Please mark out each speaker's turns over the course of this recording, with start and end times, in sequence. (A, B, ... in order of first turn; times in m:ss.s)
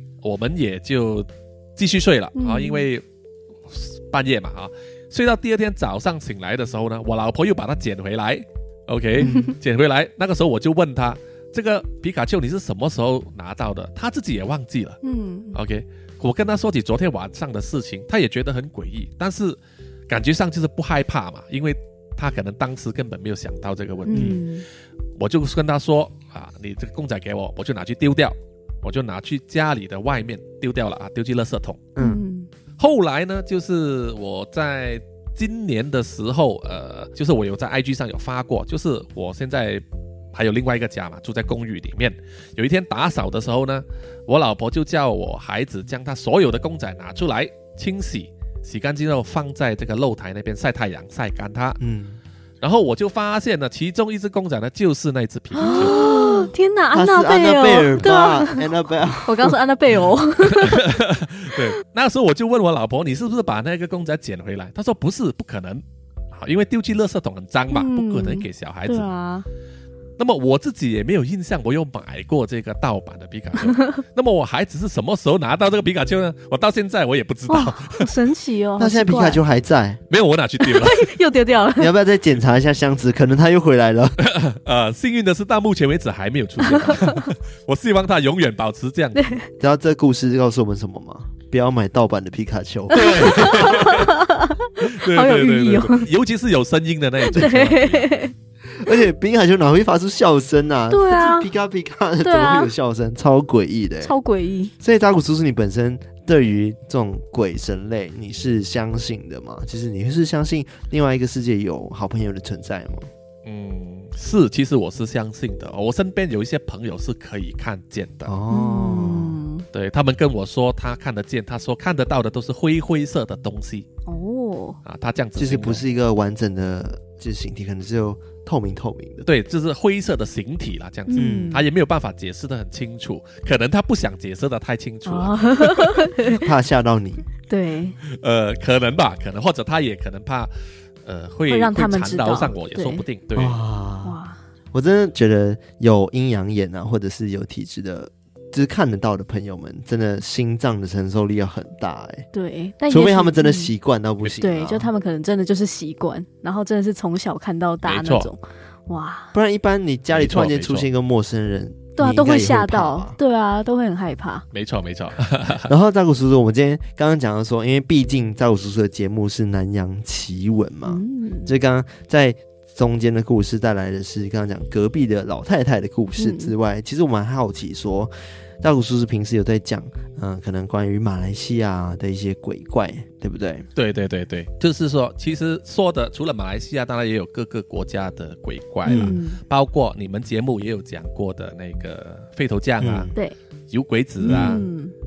0:00.2-0:03.0 A
0:02.3-0:02.8 B
0:03.7-0:15.0 A
0:09.2-0:09.5 B
0:15.0-0:15.6 B
0:15.5-0:19.6 A
0:20.1-0:24.4 A
0:24.1-0:24.6 B
0:24.1-0:24.4 C
0:25.2-0:31.8 A
0:32.0-0:32.2 C
0:32.0-0:32.5 B
0:32.8-0:39.8 A
0:40.3-0:51.8 A
0:51.8-0:52.2 C
0:52.6-0:56.0 A
0:55.6-0:58.7 B
0:55.6-0:59.6 C
0:59.2-1:00.9 B
1:00.4-1:09.1 A
1:07.7-1:09.4 B
1:10.2-1:18.1 A
1:17.5-1:19.4 B
1:18.8-1:20.0 C
1:20.1-1:21.1 A
1:20.6-1:21.9 B
1:21.8-1:24.2 C
1:24.2-1:29.3 A
1:26.6-1:27.3 B
1:29.1-1:29.5 B
1:29.6-1:33.8 C
1:32.9-1:34.2 A
1:32.9-1:36.1 B
1:34.8-1:38.2 A
1:37.3-1:38.3 B
1:38.7-1:44.1 C
1:40.9-1:41.5 B
1:42.2-1:42.7 B
1:44.0-1:44.7 B
1:44.8-1:53.1 C
1:53.4-1:58.3 A
1:58.2-1:59.4 C
1:58.5-1:59.6 B
1:59.7-2:03.9 A
2:04.1-2:04.8 B
2:04.8-2:05.8 A
2:05.4-2:09.2 C
2:09.2-2:16.0 A
2:11.1-2:11.6 B
2:11.2-2:11.6 C
2:15.0-2:16.5 B
2:16.3-2:17.2 C
2:17.5-2:18.0 B
2:18.0-2:20.5 A
2:21.0-2:23.6 A
2:21.5-2:23.0 B
2:23.4-2:24.2 C
2:24.0-2:24.4 B
2:24.7-2:32.2 C
2:32.3-2:33.7 B
2:32.9-2:34.9 C
2:34.4-2:39.3 B
2:37.8-2:38.3 A
2:39.3-2:43.2 C
2:40.1-2:40.9 A
2:42.0-2:44.4 B
2:44.5-2:45.7 A
2:45.7-3:03.7 C
2:50.8-2:51.5 B
2:56.2-2:56.5 B
3:03.8-3:13.1 A
3:08.8-3:09.4 B
3:08.9-3:09.2 C
3:12.8-3:13.1 C
3:13.7-3:14.6 A
3:14.2-3:14.9 B
3:14.2-3:14.6 C